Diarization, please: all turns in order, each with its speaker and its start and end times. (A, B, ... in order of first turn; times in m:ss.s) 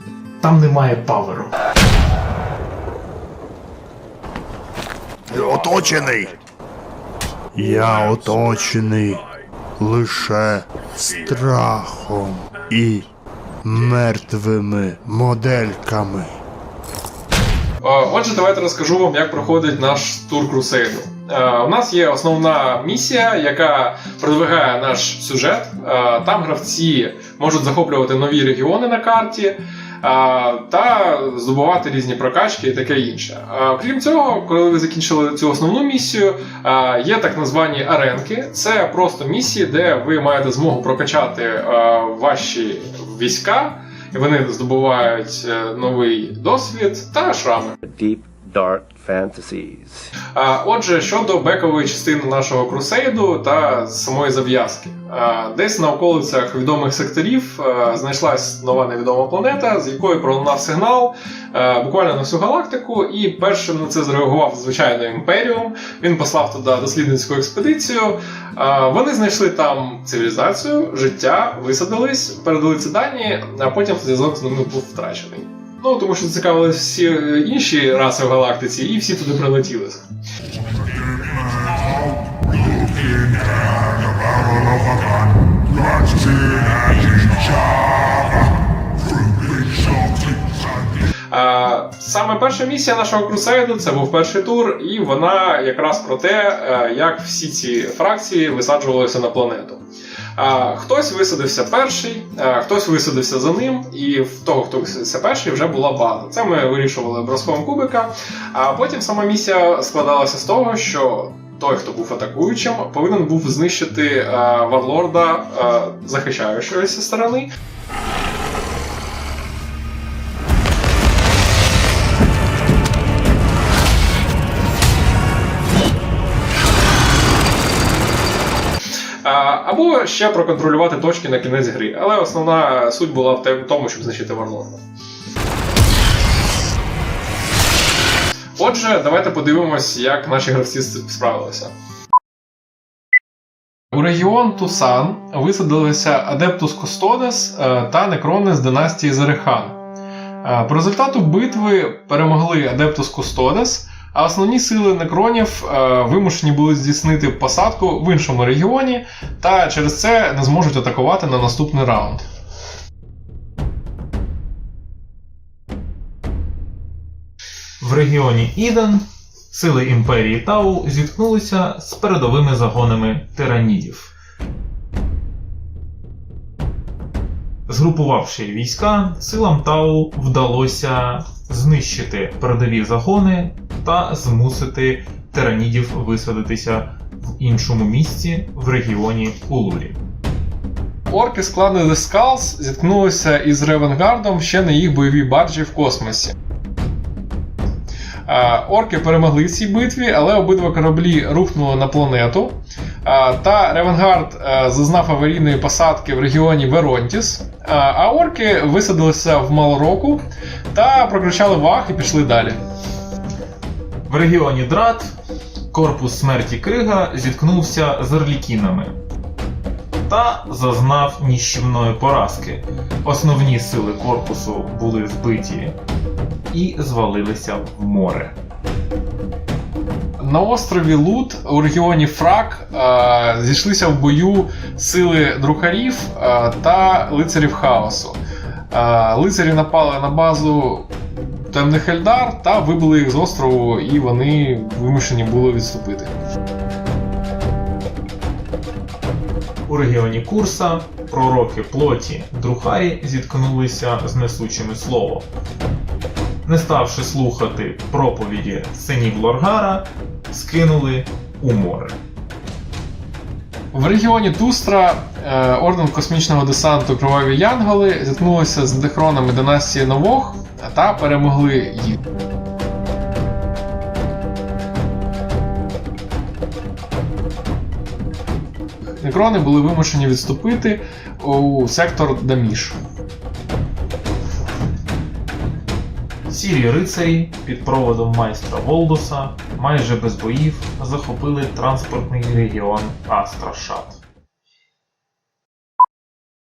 0:00.4-0:01.5 A
0:05.3-0:06.4 B
0:07.5-0:09.2 B
0:09.8-0:13.1 B
0:13.6-0:16.3 B
0:17.8-0:47.8 C
0:47.8-0:50.0 D
0:50.3-1:20.0 C
1:31.3-1:39.8 C
1:40.4-1:57.5 C
2:09.2-2:14.8 C
2:18.6-2:21.7 C
2:23.9-2:29.8 C
2:30.4-2:42.2 C
2:47.8-2:54.1 A
2:57.7-3:10.0 A
3:11.1-3:16.3 C
3:18.3-3:30.2 C
3:30.7-3:32.6 C
3:34.1-3:35.1 A
3:35.7-3:38.9 A
3:40.1-3:45.8 A
3:46.5-3:48.4 A
3:50.2-3:58.2 C
3:58.7-4:06.1 C
4:09.7-4:15.3 A
4:16.4-4:22.0 A
4:23.7-4:32.0 C
4:39.0-4:42.8 C
4:46.3-4:54.0 A